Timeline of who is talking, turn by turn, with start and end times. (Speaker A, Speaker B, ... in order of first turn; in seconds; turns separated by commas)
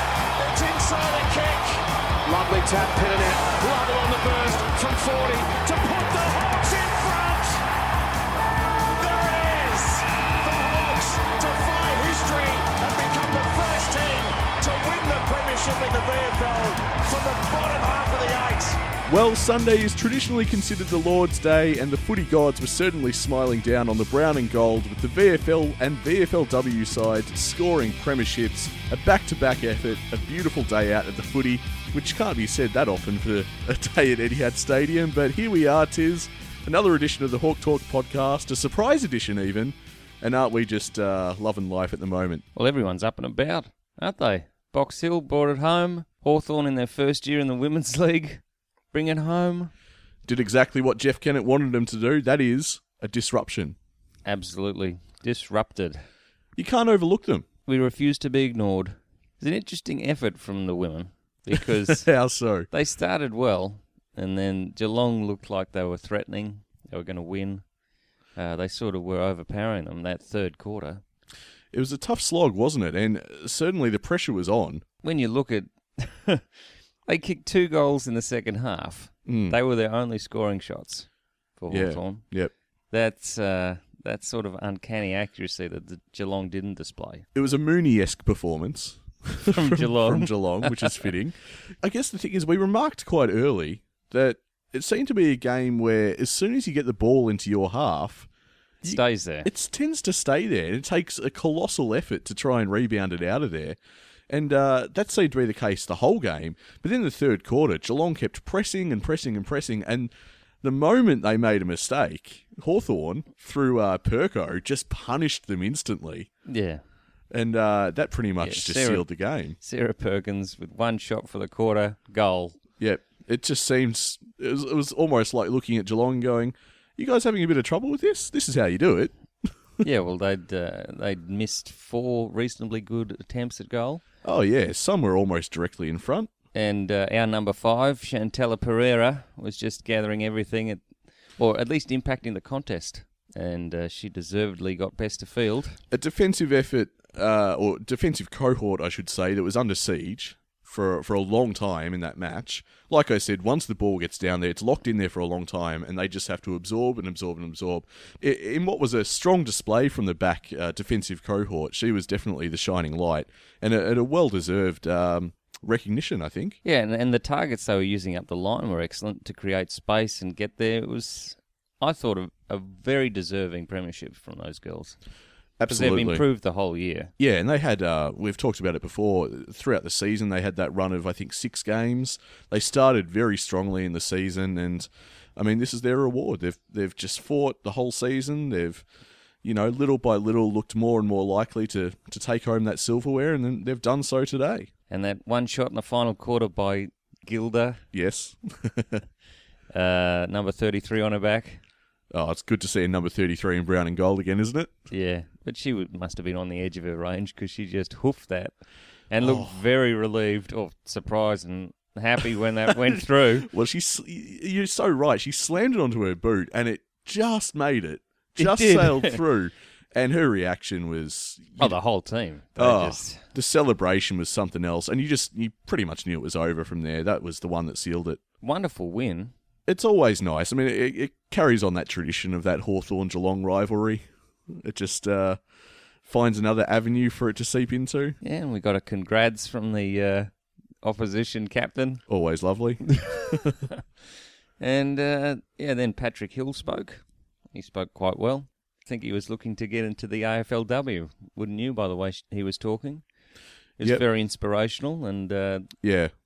Speaker A: 0.4-7.6, Speaker A: 8.9-18.8, Speaker B: 19.1-42.4, Speaker C: 42.5-49.7, Speaker B: 50.2-53.8, Speaker C: 54.2-56.0, Speaker B: 56.5-57.5, Speaker C: 57.7-62.1, Speaker B: 61.5-62.7, Speaker C: 62.7-67.6, Speaker C: 68.3-71.0, Speaker B: 71.7-74.8, Speaker C: 75.0-76.5, Speaker C: 77.0-82.2, Speaker B: 79.2-79.6, Speaker B: 81.7-82.5, Speaker C: 82.9-87.2, Speaker B: 87.3-98.3, Speaker C: 89.5-91.1, Speaker C: 98.8-99.5, Speaker B: 98.8-103.8, Speaker B: 104.3-116.3, Speaker C: 116.5-116.8, Speaker B: 117.3-119.6, Speaker C: 118.4-122.6, Speaker B: 122.8-129.8, Speaker C: 129.8-134.0, Speaker B: 134.2-136.3, Speaker C: 136.5-140.8, Speaker C: 141.4-145.8, Speaker B: 145.9-166.6, Speaker C: 166.6-175.0, Speaker B: 175.6-176.2, Speaker C: 175.7-177.1, Speaker B: 177.2-188.8, Speaker B: 189.4-194.7, Speaker C: 194.9-197.8, Speaker B: 197.9-199.0, Speaker C: 199.7-201.6, Speaker B: 202.1-204.7, Speaker C: 204.9-208.5, Speaker C: 209.1-213.5, Speaker B: 209.2-209.6, Speaker B: 212.7-221.8, Speaker C: 218.4-219.2, Speaker C: 221.6-223.3, Speaker B: 222.6-228.2, Speaker C: 228.4-229.3, Speaker B: 229.7-235.4, Speaker B: 236.1-238.2, Speaker C: 238.2-240.3, Speaker C: 240.8-242.0, Speaker B: 242.1-243.6, Speaker C: 242.9-243.8, Speaker C: 244.6-253.0, Speaker C: 253.8-255.7, Speaker B: 255.8-256.1